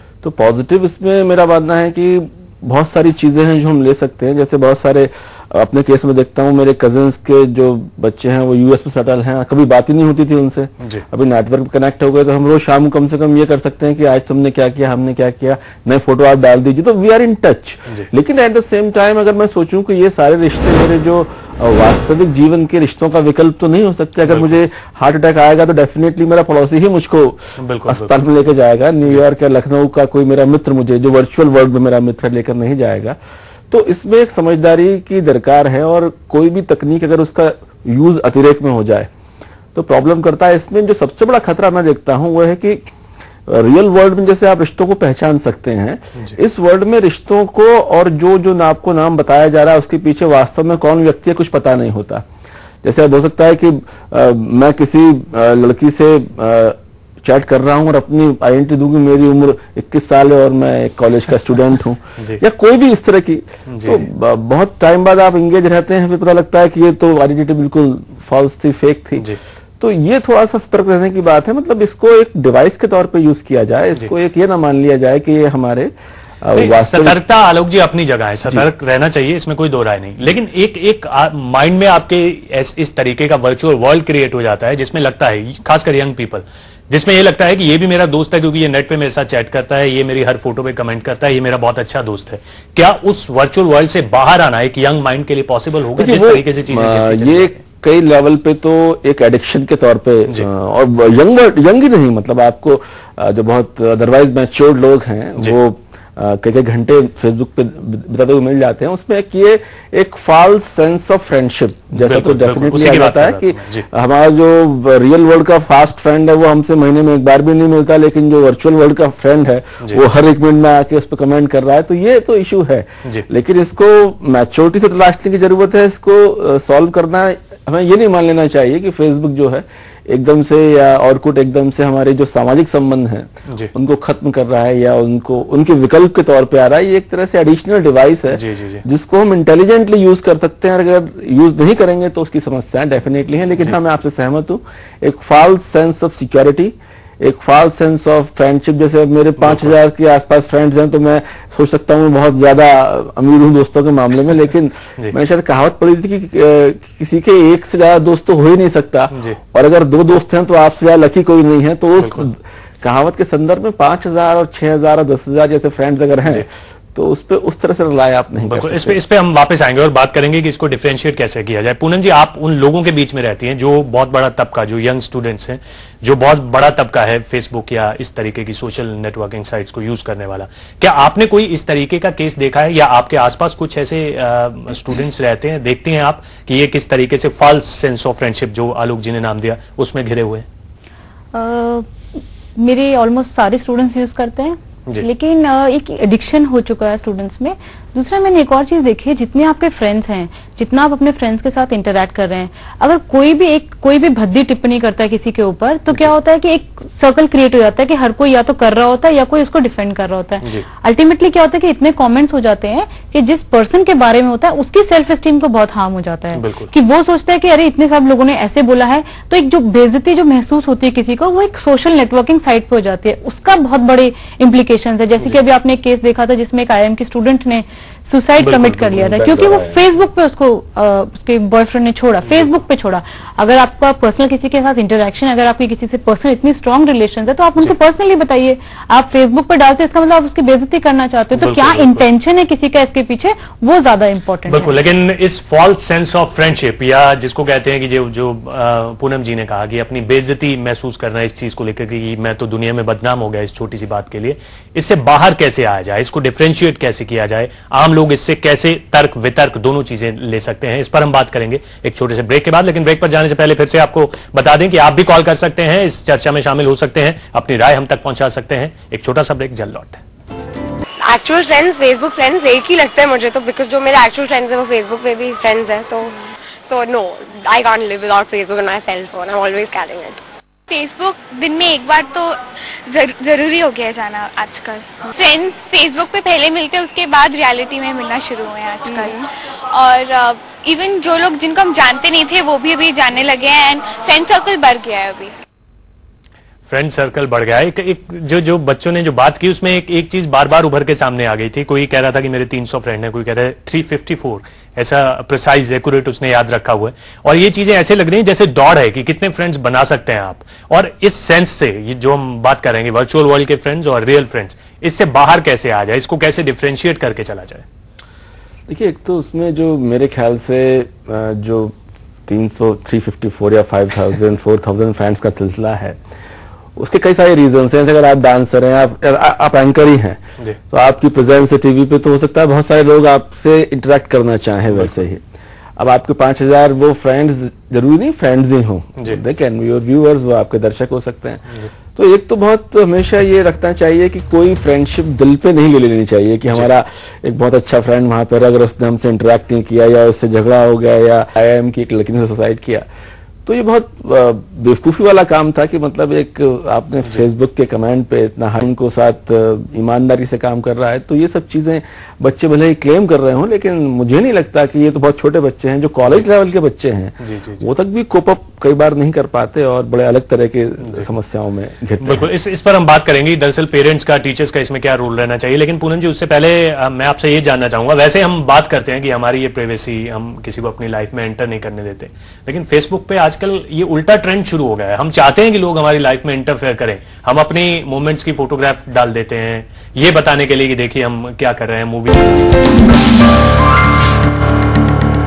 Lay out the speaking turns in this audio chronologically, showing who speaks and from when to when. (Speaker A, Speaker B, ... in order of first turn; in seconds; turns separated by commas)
Speaker A: 0.2-33.2, Speaker B: 24.3-24.6, Speaker B: 27.6-28.2, Speaker A: 33.7-39.1, Speaker A: 39.8-42.8, Speaker A: 43.5-52.2, Speaker A: 52.8-69.3, Speaker B: 63.7-64.0, Speaker A: 69.8-77.2, Speaker B: 76.5-97.6, Speaker A: 96.0-169.0, Speaker B: 112.0-113.9, Speaker B: 138.3-138.8, Speaker B: 149.4-149.8, Speaker B: 159.1-159.4, Speaker B: 162.0-162.3, Speaker B: 168.4-190.5, Speaker C: 191.3-244.8, Speaker B: 216.3-216.7, Speaker B: 228.4-229.0, Speaker A: 228.9-229.8, Speaker B: 241.4-242.0, Speaker B: 244.5-270.0, Speaker D: 271.0-276.1, Speaker D: 276.7-280.2, Speaker E: 280.7-282.3, Speaker E: 282.9-289.2, Speaker E: 289.7-295.3, Speaker B: 296.7-317.6, Speaker A: 318.7-321.8, Speaker A: 322.3-326.0, Speaker A: 326.8-335.2, Speaker A: 335.8-352.9, Speaker A: 353.5-372.3, Speaker B: 367.2-367.7, Speaker B: 372.0-392.3